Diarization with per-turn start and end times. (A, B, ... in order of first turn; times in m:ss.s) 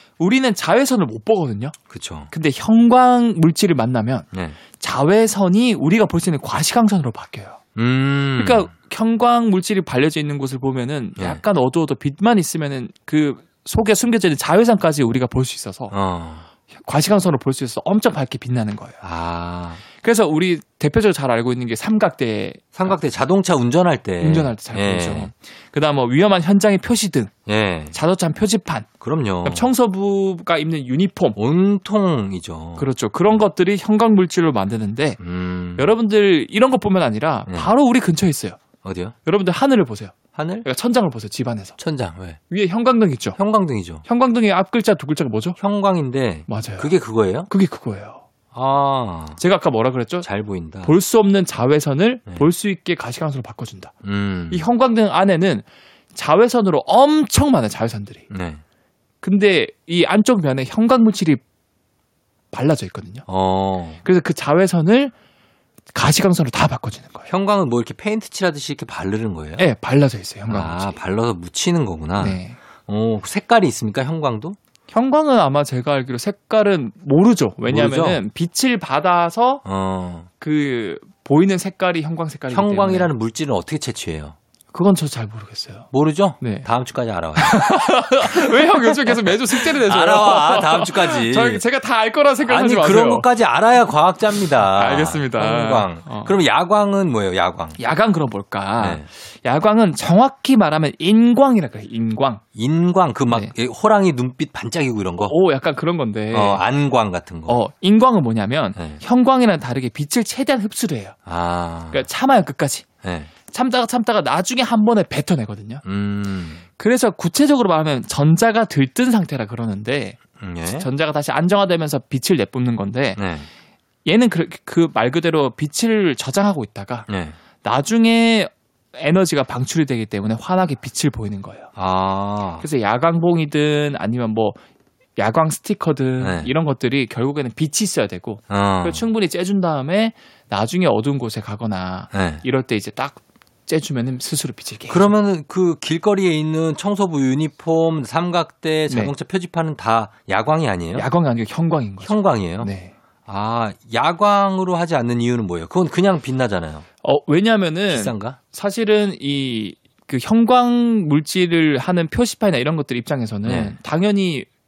0:00.2-0:01.7 A
0:01.9-0:02.3 B
0:02.3-0:07.6 A
0:04.3-0:04.6 B
0:07.8-0:08.7 B
0:08.3-0:15.9 A
0:15.9-0:16.4 B
0:16.8-0:19.0 A
0:19.0-0:19.8 B
0:20.0-0:23.0 A
0:22.7-0:25.3 B
0:24.2-0:27.3 A
0:27.4-0:27.9 B
0:27.9-0:28.9 A
0:29.0-0:29.7 B
0:29.4-0:31.4 A
0:31.4-0:32.9 B
0:32.8-0:35.2 A
0:35.2-0:35.9 B
0:35.8-0:38.6 A
0:38.8-0:39.1 B
0:39.2-0:41.8 A
0:40.3-0:40.6 B
0:41.8-0:42.4 B
0:42.5-0:43.4 A
0:43.4-0:44.0 B
0:44.0-0:45.6 A
0:45.6-0:47.5 B
0:46.5-0:46.9 A
0:47.5-0:48.2 A
0:48.5-0:49.4 B
0:49.4-0:50.3 A
0:50.2-0:51.0 B
0:50.8-0:53.9 A
0:54.0-0:54.7 B
0:54.5-0:58.3 A
0:58.3-0:58.6 B
0:59.2-1:01.4 A
1:02.5-1:03.2 A
1:03.3-1:04.0 B
1:04.0-1:05.1 A
1:05.9-1:07.3 A
1:07.3-1:09.6 B
1:09.6-1:11.0 A
1:10.5-1:14.6 B
1:12.2-1:12.6 A
1:14.9-1:19.6 A
1:17.6-1:18.2 B
1:19.6-1:20.3 B
1:20.4-1:23.1 A
1:22.5-1:24.4 B
1:24.7-1:25.9 A
1:25.9-1:31.6 B
1:26.4-1:26.7 A
1:27.4-1:33.3 A
1:32.4-1:37.8 B
1:34.6-1:36.4 A
1:37.8-1:42.4 A
1:38.8-1:39.0 B
1:42.6-1:45.3 B
1:45.2-1:46.6 A
1:46.3-1:47.6 B
1:47.5-1:51.1 A
1:48.8-1:49.0 B
1:51.2-1:52.0 B
1:51.9-1:52.8 A
1:53.0-1:53.3 B
1:53.5-1:55.8 A
1:55.8-1:56.6 B
1:56.8-2:03.2 A
2:00.4-2:00.9 B
2:03.2-2:03.5 B
2:04.0-2:07.1 A
2:07.1-2:07.4 B
2:07.6-2:11.7 A
2:11.8-2:12.6 B
2:12.6-2:14.6 A
2:15.2-2:25.1 A
2:16.2-2:16.5 B
2:18.5-2:19.0 B
2:22.1-2:22.4 B
2:24.9-2:31.1 B
2:30.9-2:32.9 A
2:32.0-2:32.7 B
2:33.2-2:36.8 B
2:37.0-2:44.5 A
2:37.9-2:38.4 B
2:43.4-2:43.8 B